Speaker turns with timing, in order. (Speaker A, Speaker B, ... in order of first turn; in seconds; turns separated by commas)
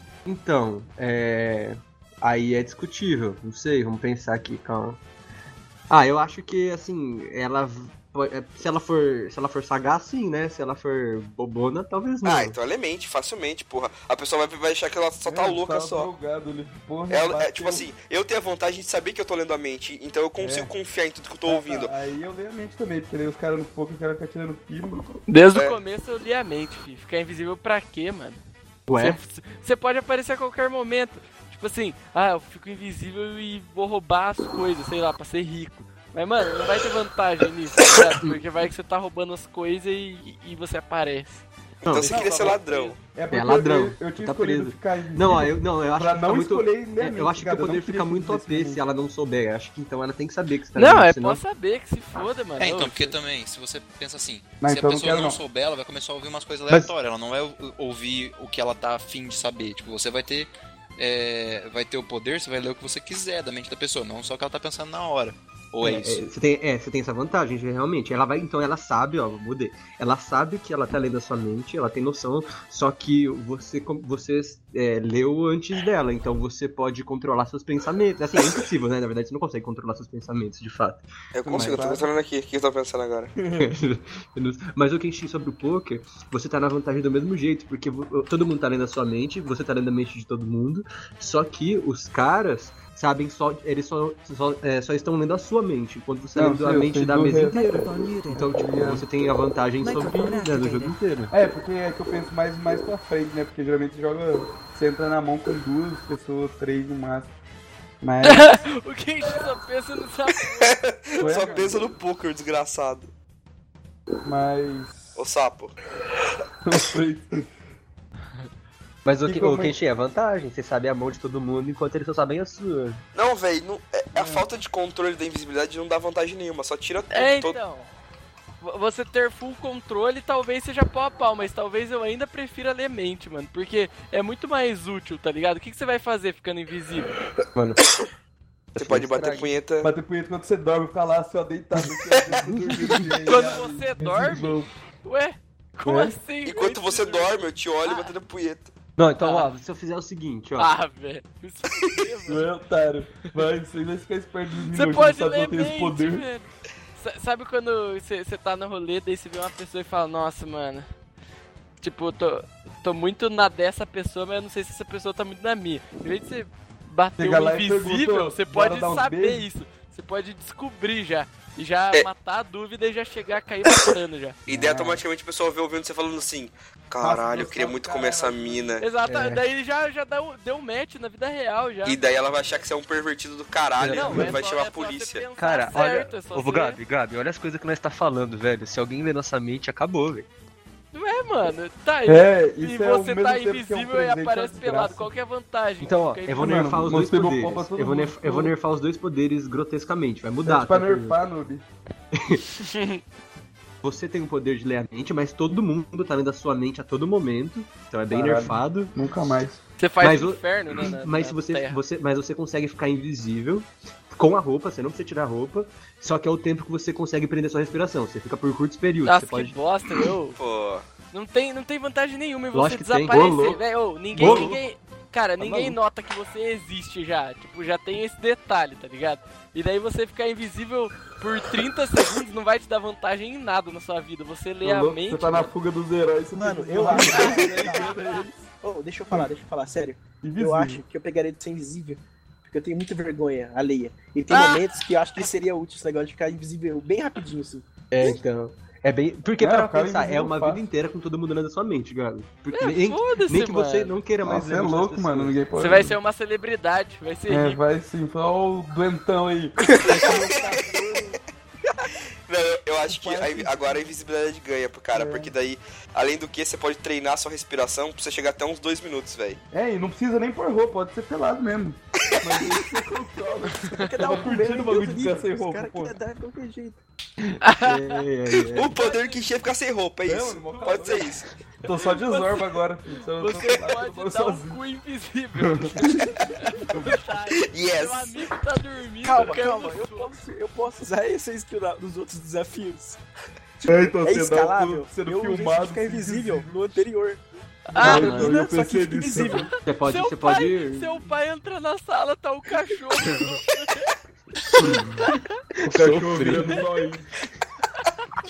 Speaker A: 0.2-5.0, Speaker A: 5.9-12.6, Speaker B: 12.2-16.1, Speaker C: 15.2-17.9, Speaker B: 17.1-21.9, Speaker C: 20.4-20.7, Speaker C: 21.4-25.2, Speaker D: 25.3-28.4, Speaker A: 28.9-29.2, Speaker D: 28.9-41.4, Speaker A: 41.8-42.1, Speaker B: 41.9-43.0, Speaker D: 42.0-43.0, Speaker C: 42.2-48.8, Speaker A: 43.3-51.4, Speaker D: 50.7-53.1, Speaker E: 52.6-66.2, Speaker C: 54.6-55.4, Speaker A: 65.8-81.8, Speaker B: 81.3-83.3, Speaker C: 81.4-82.1, Speaker C: 83.4-83.7, Speaker A: 83.6-101.3, Speaker C: 96.3-97.6, Speaker C: 98.4-99.1, Speaker C: 101.3-107.3, Speaker C: 108.0-108.6, Speaker D: 108.2-111.5, Speaker B: 110.6-113.1, Speaker C: 111.2-111.8, Speaker C: 114.2-115.2, Speaker B: 115.2-115.7, Speaker C: 116.6-117.5, Speaker A: 119.0-123.0, Speaker C: 119.2-119.8, Speaker B: 123.1-127.6, Speaker C: 124.1-124.5, Speaker D: 127.1-127.9, Speaker D: 128.6-137.1, Speaker A: 138.7-139.5, Speaker B: 138.8-139.9, Speaker C: 139.8-144.7, Speaker D: 143.2-148.1, Speaker B: 146.4-148.7, Speaker A: 149.0-150.7, Speaker D: 149.2-149.5, Speaker D: 150.6-152.4, Speaker C: 152.2-156.2, Speaker D: 154.7-160.9, Speaker D: 161.8-174.4, Speaker C: 167.2-169.5, Speaker C: 174.5-175.0, Speaker B: 174.5-178.8, Speaker C: 177.0-178.8, Speaker D: 178.8-182.0, Speaker A: 179.0-179.4, Speaker B: 181.8-185.2, Speaker A: 183.8-184.4, Speaker D: 183.9-186.8, Speaker A: 185.4-190.3, Speaker D: 190.9-196.8, Speaker C: 192.1-195.1, Speaker A: 195.8-201.2, Speaker C: 196.3-198.5, Speaker C: 200.4-201.6, Speaker A: 202.1-202.4, Speaker D: 202.6-203.0, Speaker A: 203.8-208.9, Speaker C: 208.1-209.6, Speaker D: 209.8-211.8, Speaker A: 210.0-219.5, Speaker D: 219.0-220.4, Speaker B: 220.3-220.8, Speaker D: 221.1-235.5, Speaker A: 222.5-223.6, Speaker A: 224.2-224.6, Speaker C: 224.2-224.6, Speaker A: 225.4-225.8, Speaker C: 234.6-238.4, Speaker F: 236.3-238.0, Speaker D: 237.2-237.5, Speaker F: 238.6-247.7, Speaker C: 240.2-240.8, Speaker D: 244.3-244.7, Speaker A: 247.9-255.4, Speaker C: 249.4-250.7, Speaker D: 252.5-253.9, Speaker C: 254.2-256.0, Speaker D: 255.6-257.6, Speaker C: 257.3-261.2, Speaker B: 260.1-260.6, Speaker B: 262.3-269.4, Speaker C: 262.8-263.8, Speaker C: 264.9-265.3, Speaker C: 269.5-275.9, Speaker F: 273.7-276.8, Speaker A: 277.2-278.7, Speaker D: 277.4-278.0, Speaker B: 278.5-281.2, Speaker D: 278.7-279.3, Speaker C: 280.1-284.6, Speaker D: 280.5-281.0, Speaker D: 281.6-282.6, Speaker D: 283.1-290.1, Speaker C: 285.4-286.2, Speaker C: 286.7-287.0, Speaker B: 287.3-288.2, Speaker F: 289.0-293.0, Speaker F: 293.6-297.2, Speaker C: 293.6-296.5, Speaker D: 297.7-298.3, Speaker C: 297.8-299.5, Speaker F: 297.8-299.5, Speaker A: 297.8-298.3, Speaker D: 299.3-303.9, Speaker A: 299.6-300.9, Speaker C: 304.6-305.1, Speaker A: 305.6-306.6, Speaker C: 305.6-307.1